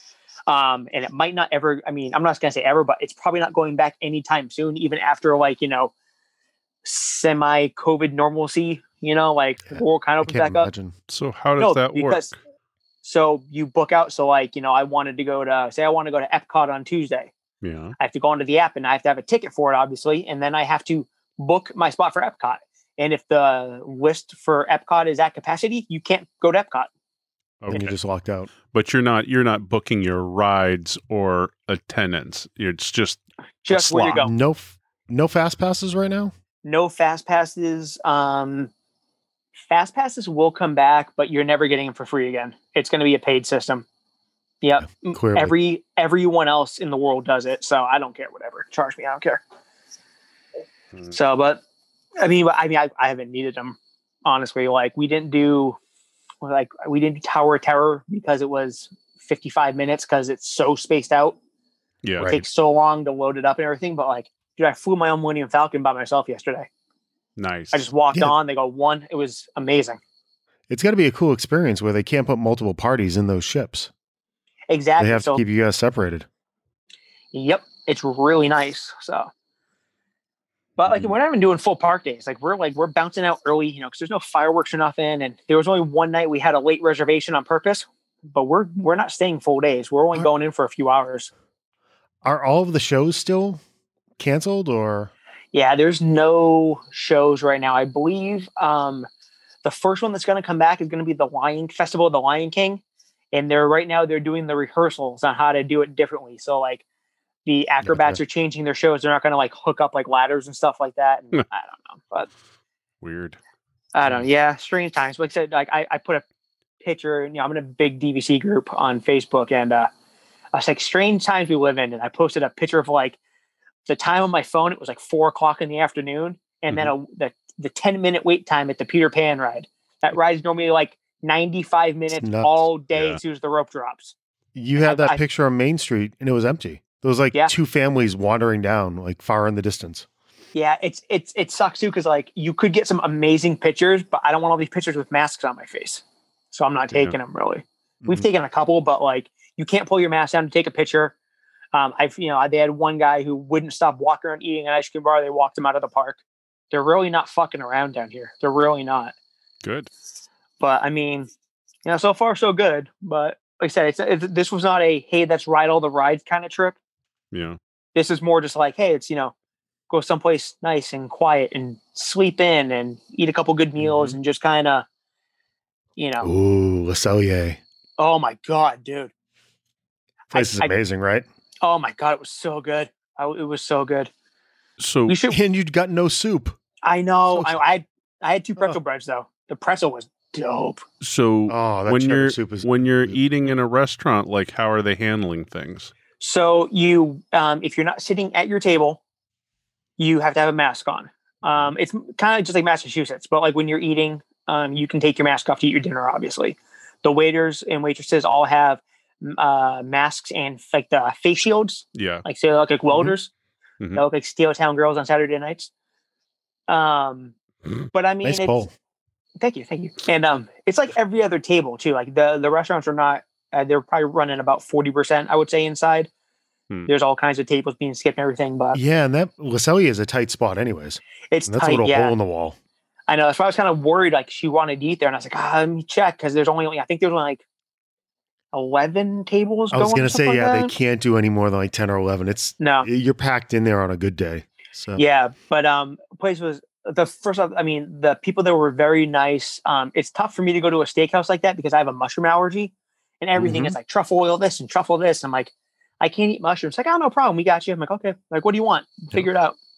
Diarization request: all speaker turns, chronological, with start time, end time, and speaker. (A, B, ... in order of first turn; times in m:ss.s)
0:00.5-0:05.9 A
0:06.8-0:10.7 A
0:09.7-0:10.9 B
0:11.1-0:12.3 C
0:11.6-0:12.3 A
0:13.0-0:17.3 A
0:17.6-0:18.0 C
0:18.0-0:26.9 A
0:27.6-0:28.0 C
0:27.7-0:28.5 B
0:28.7-0:33.2 C
0:33.6-0:34.3 A
0:33.7-0:36.3 B
0:36.6-0:38.7 A
0:39.7-0:43.8 A
0:44.6-0:49.4 A
0:44.9-0:45.5 B
0:51.1-0:51.6 A
0:52.2-0:55.8 A
0:56.4-1:01.4 A
1:02.0-1:02.3 C
1:02.2-1:02.4 B
1:02.2-1:06.7 A
1:07.4-1:07.9 C
1:07.7-1:10.0 A
1:10.7-1:13.9 B
1:14.7-1:15.4 A
1:15.0-1:16.3 B
1:17.3-1:19.3 A
1:20.8-1:31.3 A
1:32.2-1:33.6 B
1:34.2-1:35.1 B
1:35.5-1:39.1 A
1:39.6-1:42.8 A
1:43.3-1:46.8 A
1:47.4-1:52.3 A
1:47.8-1:48.2 B
1:53.0-1:53.4 C
1:53.9-1:56.2 A
1:56.8-1:59.9 A
2:00.5-2:03.2 A
2:03.9-2:14.2 A
2:12.2-2:12.6 B
2:13.0-2:13.2 C
2:14.6-2:20.1 B
2:14.8-2:15.2 A
2:20.5-2:31.1 A
2:31.7-2:36.2 A
2:36.7-2:39.1 A
2:39.6-2:39.9 C
2:40.6-2:41.3 A
2:41.8-2:46.8 A
2:47.3-2:47.6 C
2:48.0-2:49.3 A
2:49.9-2:54.8 A
2:53.8-2:54.2 C
2:56.0-2:56.3 A
2:56.2-2:57.6 B
2:58.0-2:59.1 A
3:00.3-3:01.2 B
3:00.3-3:00.8 A
3:01.6-3:04.1 A
3:04.8-3:05.2 C
3:05.1-3:05.4 A
3:05.3-3:06.6 B
3:06.8-3:10.8 A
3:07.3-3:07.6 B
3:11.0-3:15.9 C
3:11.5-3:13.2 B
3:16.2-3:19.0 A
3:20.0-3:33.3 A
3:32.0-3:32.2 C
3:34.0-3:35.7 A
3:36.7-3:37.3 A
3:37.9-3:38.6 A
3:38.2-3:38.7 B
3:39.4-3:46.1 A
3:46.9-3:48.8 A
3:48.7-3:52.6 B
3:51.3-3:52.2 A
3:53.1-3:57.4 A
3:58.5-4:00.7 A
3:59.7-4:05.0 B
4:02.6-4:02.9 A
4:05.0-4:19.6 A
4:13.4-4:13.7 B